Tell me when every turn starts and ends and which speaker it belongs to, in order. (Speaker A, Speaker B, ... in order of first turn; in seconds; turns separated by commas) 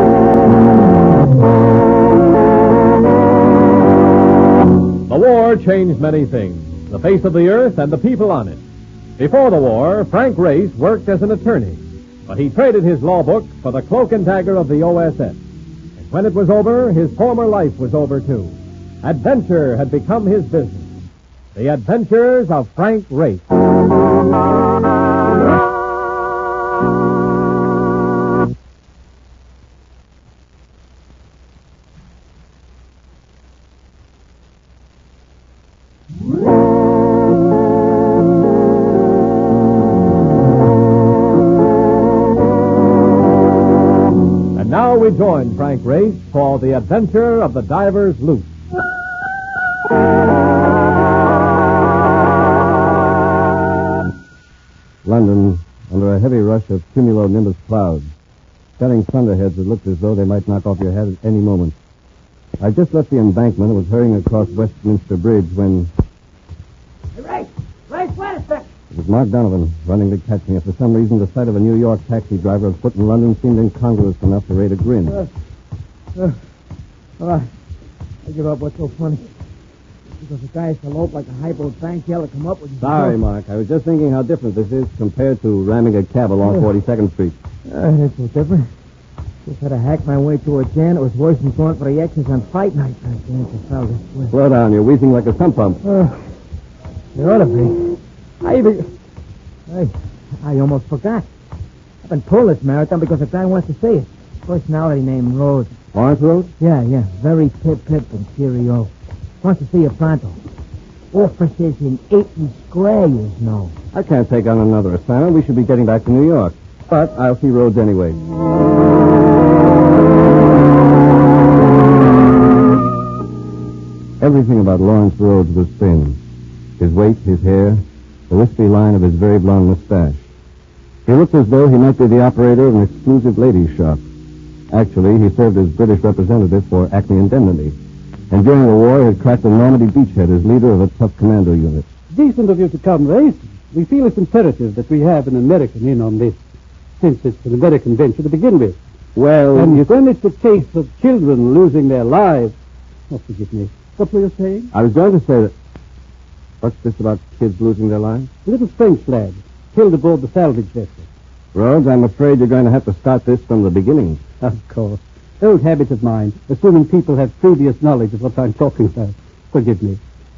Speaker A: 5.1-8.6, Speaker A: 9.2-15.4, Speaker A: 16.1-20.9, Speaker A: 21.5-23.4, Speaker A: 44.5-48.5, Speaker B: 55.0-58.1, Speaker B: 58.8-61.7, Speaker B: 62.6-65.9, Speaker C: 67.2-68.7, Speaker B: 68.9-75.2, Speaker C: 76.1-76.4, Speaker C: 77.2-77.5, Speaker C: 78.2-79.3, Speaker C: 80.2-83.2, Speaker B: 82.8-87.3, Speaker C: 86.4-86.7, Speaker C: 87.7-88.7, Speaker C: 89.4-94.3, Speaker B: 94.3-95.8, Speaker C: 95.8-96.2, Speaker C: 97.1-98.9, Speaker C: 99.7-101.3, Speaker C: 102.0-105.7, Speaker B: 105.9-106.5, Speaker C: 106.6-110.4, Speaker C: 111.1-113.7, Speaker B: 113.9-118.2, Speaker B: 124.2-126.2, Speaker B: 126.8-130.2, Speaker B: 131.1-134.0, Speaker B: 134.7-137.7, Speaker B: 138.3-141.8, Speaker D: 142.1-146.4, Speaker D: 147.0-148.8, Speaker B: 149.2-149.8, Speaker D: 149.5-152.5, Speaker D: 153.1-154.7, Speaker B: 154.7-155.5, Speaker B: 156.6-158.3, Speaker D: 158.4-161.1, Speaker B: 161.5-164.2, Speaker D: 164.4-170.0